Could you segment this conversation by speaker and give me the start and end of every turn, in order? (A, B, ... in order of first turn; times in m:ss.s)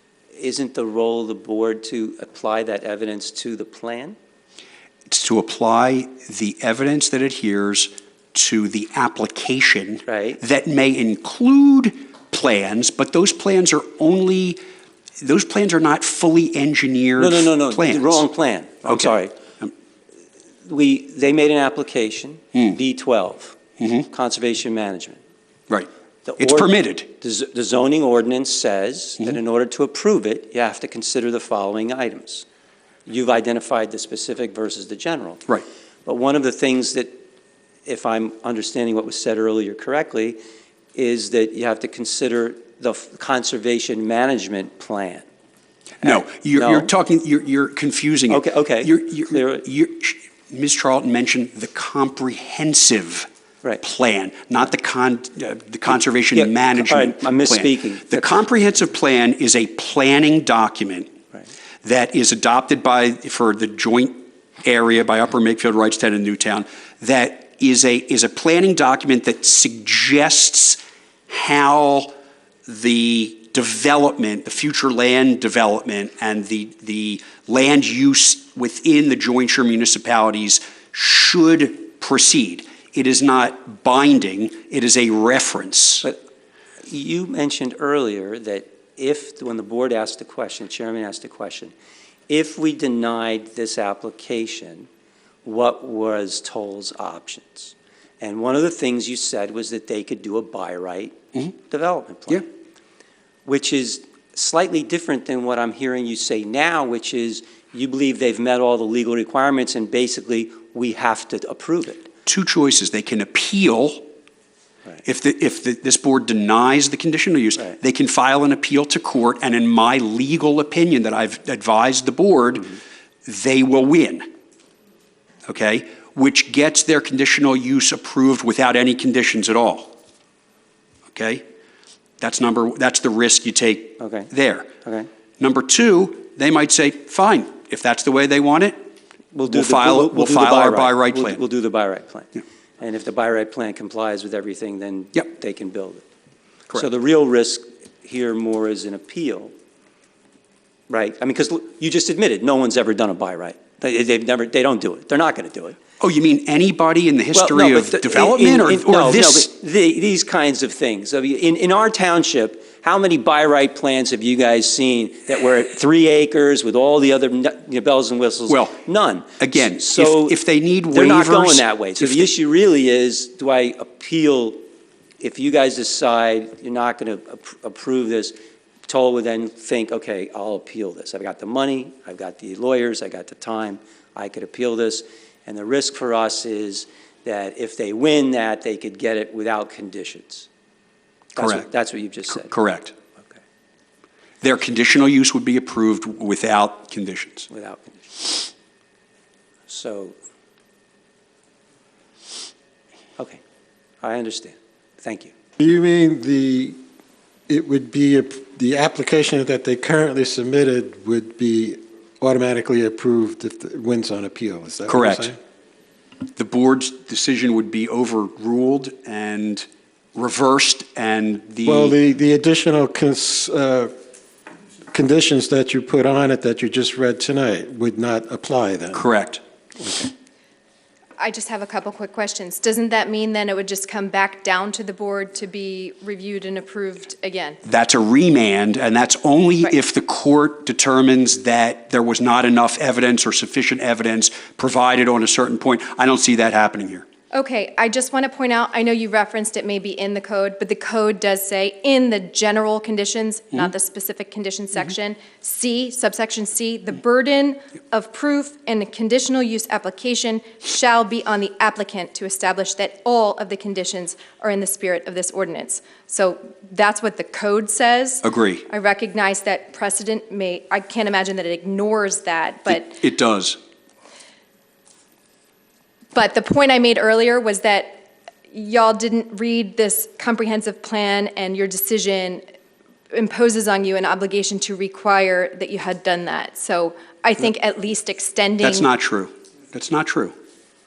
0:00.3-0:04.2 A
0:05.1-0:14.6 B
0:10.0-0:10.4 A
0:15.2-0:18.2 B
0:17.2-0:19.3 A
0:18.8-0:19.7 B
0:20.7-0:25.2 A
0:23.8-0:24.0 B
0:25.7-0:27.1 B
0:26.2-0:32.4 A
0:33.0-0:35.4 A
0:36.0-0:37.2 A
0:37.8-0:40.4 A
0:41.0-0:45.2 A
0:46.0-0:46.9 A
0:46.0-0:53.3 B
0:48.3-0:49.6 A
0:53.8-1:01.1 B
0:56.3-0:58.4 A
1:01.8-1:12.1 B
1:12.7-1:26.0 B
1:26.9-1:31.7 A
1:32.3-1:34.9 A
1:35.4-1:42.5 A
1:43.4-1:52.1 A
1:52.2-1:54.1 B
1:55.0-2:04.3 B
2:05.4-2:09.9 B
2:11.1-2:11.4 B
2:12.2-2:14.7 B
2:14.0-2:14.3 A
2:15.4-2:18.8 B
2:19.3-2:26.0 A
2:19.5-2:21.4 B
2:26.7-2:29.5 A
2:30.9-2:35.8 A
2:36.0-2:39.5 B
2:37.3-2:50.4 A
2:49.4-2:52.3 B
2:50.9-2:54.6 A
2:55.2-2:58.4 A
2:58.9-3:10.5 A
3:11.4-3:12.5 A
3:11.4-3:11.7 B
3:12.3-3:12.9 B
3:14.4-3:17.5 B
3:17.5-3:18.5 A
3:19.7-3:20.2 A
3:24.0-3:25.3 A
3:25.6-3:26.8 C
3:27.5-3:35.4 C
3:34.9-3:35.3 B
3:36.3-3:41.9 B
3:41.6-3:43.9 C
3:44.9-3:49.0 C
3:48.9-3:49.4 B
3:51.2-3:57.6 D
3:57.6-4:07.0 B
4:07.3-4:33.0 D
4:28.2-4:28.6 B
4:32.7-4:33.6 B
4:36.1-4:42.4 D
4:43.1-4:48.9 D
4:48.6-4:50.3 B